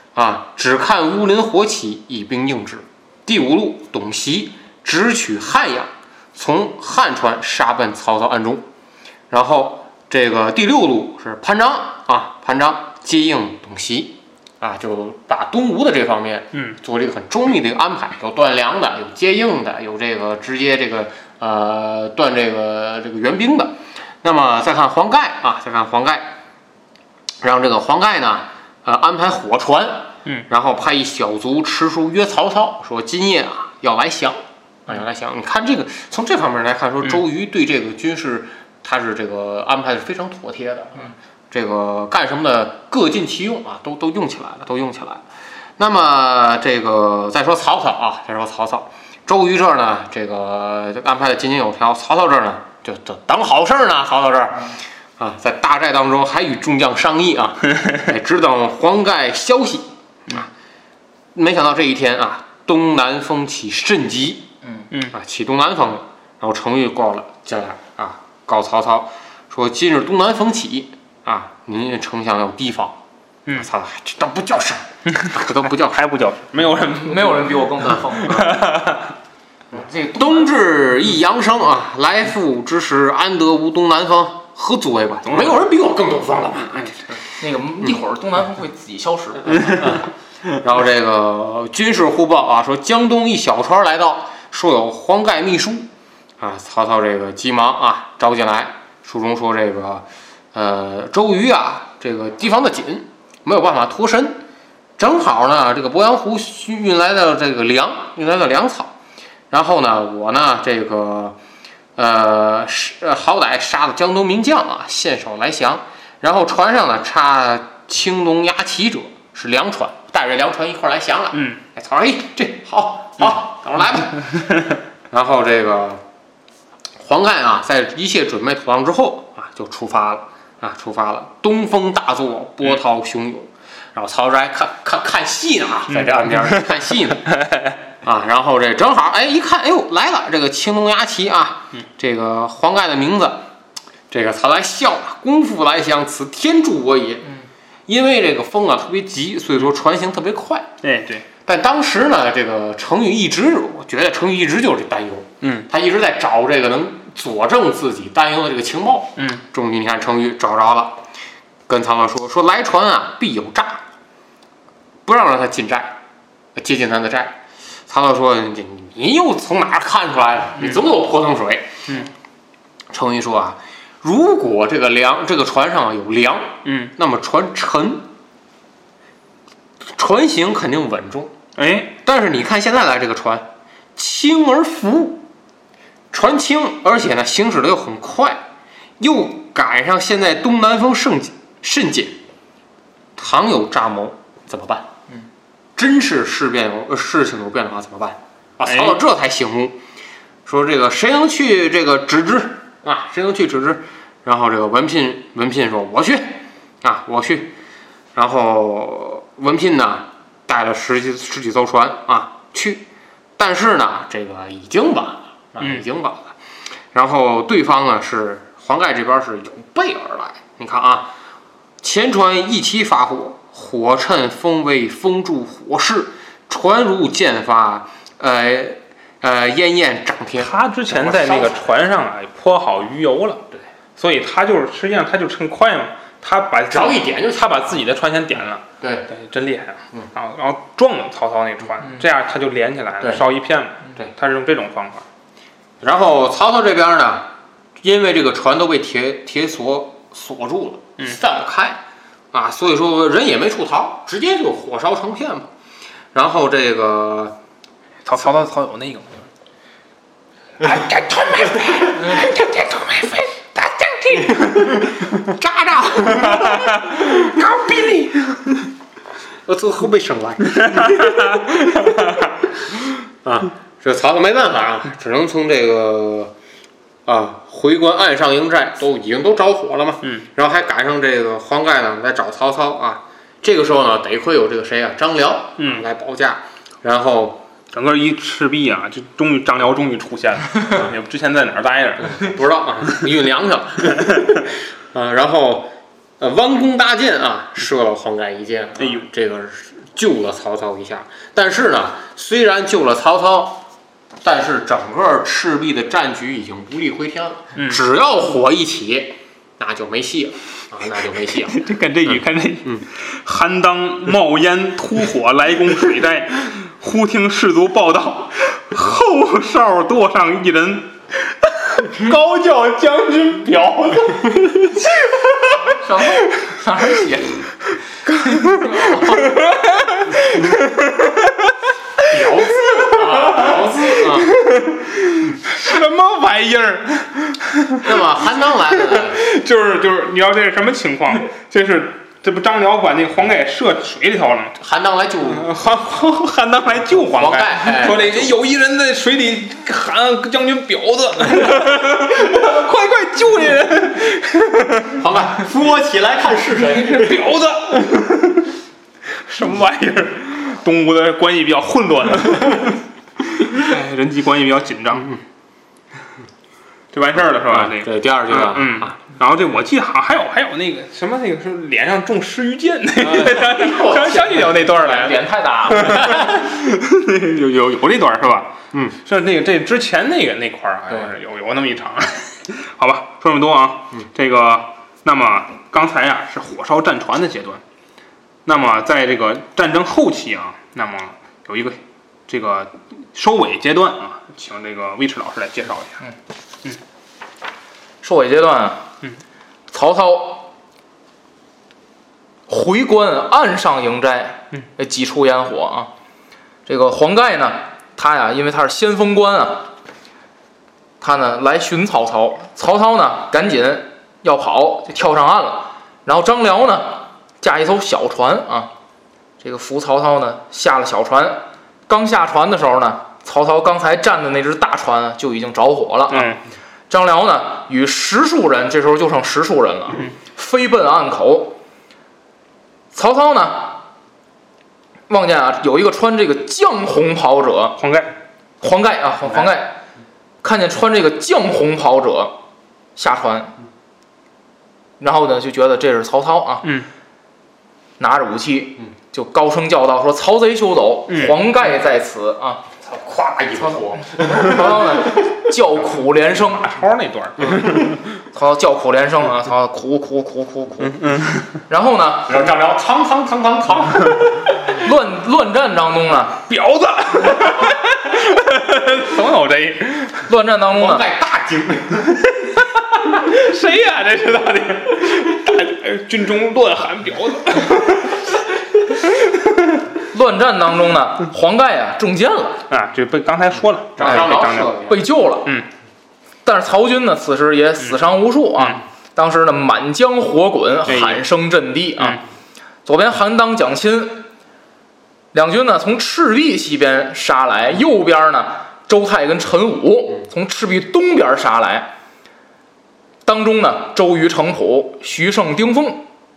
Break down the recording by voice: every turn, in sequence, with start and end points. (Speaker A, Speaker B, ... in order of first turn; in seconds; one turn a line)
Speaker A: 0.1-8.7
Speaker A: 9.3-26.4
Speaker A: 27.4-45.2
Speaker A: 45.8-60.5
Speaker A: 61.3-64.5
Speaker B: 64.6-64.9
Speaker A: 65.1-73.0
Speaker A: 73.5-76.0
Speaker C: 75.1-79.1
Speaker B: 76.9-78.6
Speaker B: 79.7-80.5
Speaker A: 80.1-86.9
Speaker C: 85.2-85.6
Speaker B: 87.4-90.0
Speaker A: 89.6-104.4
Speaker A: 105.0-108.9
Speaker A: 109.5-111.4
Speaker A: 112.0-124.5
Speaker A: 125.1-126.0
Speaker A: 127.0-137.3
Speaker C: 135.9-137.7
Speaker A: 138.0-143.5
Speaker A: 144.1-147.3
Speaker A: 147.9-150.7
Speaker C: 150.8-151.2
Speaker A: 151.4-161.0
Speaker C: 155.4-155.7
Speaker C: 159.2-159.4
Speaker A: 161.7-163.8
Speaker A: 165.1-166.0
Speaker A: 166.5-172.0
Speaker A: 172.9-178.1
Speaker C: 176.6-176.9
Speaker A: 179.9-181.3
Speaker C: 181.6-181.9
Speaker A: 182.0-185.2
Speaker A: 186.1-188.4
Speaker A: 189.0-192.2
Speaker A: 193.2-194.9
Speaker A: 195.8-199.8
Speaker C: 198.7-199.0
Speaker A: 200.4-207.5
Speaker A: 208.1-212.8
Speaker A: 213.4-216.4
Speaker A: 216.9-221.1
Speaker A: 221.8-231.6
Speaker C: 230.4-233.4
Speaker C: 234.0-245.1
Speaker A: 236.7-237.8
Speaker A: 238.8-239.1
Speaker A: 245.8-255.5
Speaker A: 256.1-257.4
Speaker C: 258.0-259.3
Speaker C: 260.6-264.8
Speaker A: 260.6-262.8
Speaker A: 264.1-268.2
Speaker C: 266.2-267.3
Speaker A: 269.5-276.3
Speaker C: 270.5-272.3
Speaker A: 277.1-287.4
Speaker C: 285.6-285.9
Speaker C: 287.7-292.4
Speaker A: 292.0-303.6
Speaker A: 304.2-312.8
Speaker C: 307.6-307.8
Speaker C: 311.5-325.8
Speaker A: 324.0-324.3
Speaker B: 325.5-327.5
Speaker C: 328.1-331.6
Speaker B: 328.3-329.3
Speaker A: 332.1-334.3
Speaker C: 332.1-338.1
Speaker A: 337.8-339.2
Speaker C: 338.7-344.6
Speaker A: 344.6-345.5
Speaker C: 345.3-355.0
Speaker A: 347.1-348.5
Speaker A: 354.9-357.3
Speaker C: 356.6-358.5
Speaker C: 359.2-365.2
Speaker C: 366.9-387.6
Speaker A: 367.3-368.9
Speaker A: 373.1-374.4
Speaker B: 373.1-376.2
Speaker A: 376.0-376.4
Speaker C: 388.4-396.0
Speaker B: 398.0-398.9
Speaker B: 399.7-400.5
Speaker B: 402.5-405.9
Speaker B: 406.6-409.7
Speaker B: 411.0-418.7
Speaker B: 419.4-426.3
Speaker C: 426.1-426.4
Speaker B: 426.9-431.6
Speaker B: 432.9-433.8
Speaker B: 435.1-437.8
Speaker C: 437.8-438.1
Speaker B: 438.6-439.8
Speaker B: 440.4-442.4
Speaker B: 442.9-443.6
Speaker B: 445.0-446.7
Speaker B: 448.0-452.7
Speaker C: 451.1-451.4
Speaker A: 452.8-455.2
Speaker B: 453.6-456.7
Speaker C: 455.9-458.0
Speaker A: 457.4-457.8
Speaker B: 458.3-462.4
Speaker C: 460.9-461.5
Speaker A: 462.3-464.4
Speaker B: 464.7-466.4
Speaker C: 466.5-470.3
Speaker B: 470.3-471.1
Speaker A: 470.7-472.2
Speaker C: 472.5-478.4
Speaker B: 480.0-482.6
Speaker C: 482.7-484.8
Speaker A: 483.9-485.0
Speaker B: 484.0-485.6
Speaker B: 486.4-492.2
Speaker C: 490.9-491.2
Speaker B: 492.9-494.3
Speaker B: 495.3-501.9
Speaker B: 503.2-506.1